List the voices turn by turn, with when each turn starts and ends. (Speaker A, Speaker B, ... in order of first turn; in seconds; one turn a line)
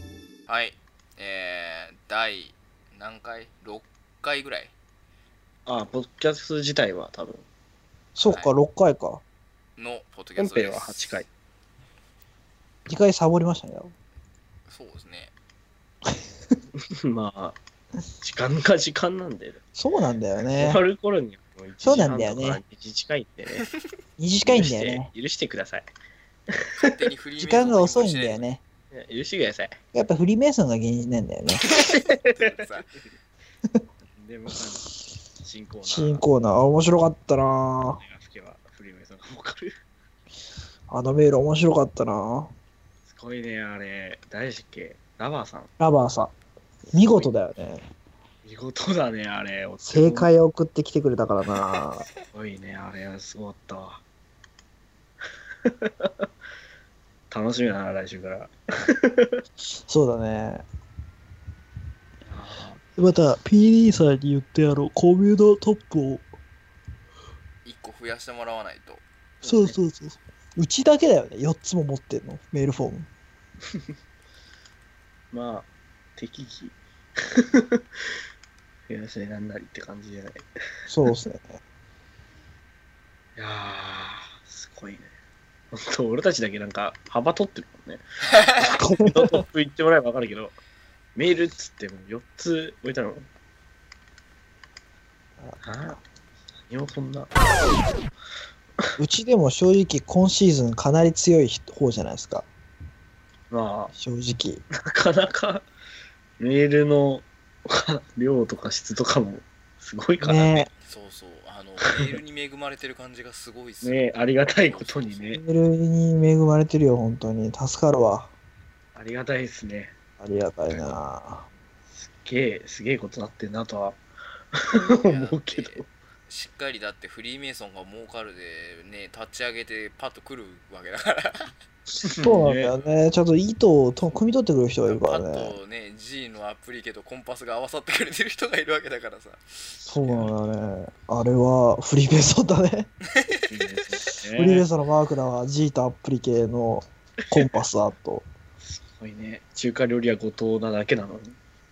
Speaker A: 0.5-4.7
Speaker B: 5.7-7.5
Speaker C: 8.2-9.2
Speaker A: 8.2-8.5
Speaker A: 9.8-11.2
Speaker B: 10.4-11.3
Speaker C: 12.9-13.9
Speaker A: 14.7-15.3
Speaker B: 16.9-17.6
Speaker B: 18.2-19.6
Speaker C: 19.8-20.8
Speaker B: 20.6-23.6
Speaker C: 21.8-22.6
Speaker C: 24.2-25.1
Speaker B: 24.4-25.9
Speaker A: 26.8-28.5
Speaker C: 27.4-28.6
Speaker B: 28.9-29.8
Speaker C: 29.9-31.7
Speaker B: 31.8-32.4
Speaker A: 32.3-33.0
Speaker B: 34.1-34.8
Speaker B: 35.4-36.2
Speaker C: 35.8-38.0
Speaker B: 38.0-39.7
Speaker C: 40.9-42.5
Speaker B: 43.0-45.7
Speaker C: 45.8-46.3
Speaker C: 46.9-47.8
Speaker B: 46.9-47.3
Speaker B: 48.4-50.3
Speaker C: 49.8-52.1
Speaker B: 52.3-54.0
Speaker B: 55.6-56.1
Speaker B: 57.3-59.4
Speaker C: 59.9-60.6
Speaker B: 62.3-62.8
Speaker C: 63.0-66.2
Speaker A: 67.7-69.0
Speaker B: 69.4-69.8
Speaker C: 69.4-73.1
Speaker B: 75.3-76.8
Speaker B: 77.4-77.8
Speaker B: 78.9-80.5
Speaker C: 80.9-81.5
Speaker B: 83.4-85.1
Speaker B: 85.7-90.6
Speaker C: 88.6-89.4
Speaker B: 91.2-93.3
Speaker C: 95.4-96.0
Speaker B: 95.6-96.0
Speaker B: 96.7-97.3
Speaker C: 99.0-102.5
Speaker B: 103.5-103.9
Speaker C: 104.0-104.6
Speaker B: 104.8-105.7
Speaker B: 106.4-110.5
Speaker C: 110.2-110.7
Speaker A: 110.8-115.4
Speaker B: 111.8-112.2
Speaker B: 113.8-115.4
Speaker C: 115.3-118.3
Speaker B: 118.9-119.9
Speaker C: 120.2-121.5
Speaker B: 122.0-124.0
Speaker B: 124.5-125.9
Speaker A: 124.8-131.5
Speaker B: 132.0-132.7
Speaker C: 132.2-135.5
Speaker A: 132.7-133.0
Speaker A: 134.9-139.4
Speaker C: 139.9-142.9
Speaker B: 143.5-144.7
Speaker C: 144.3-148.3
Speaker B: 148.6-151.4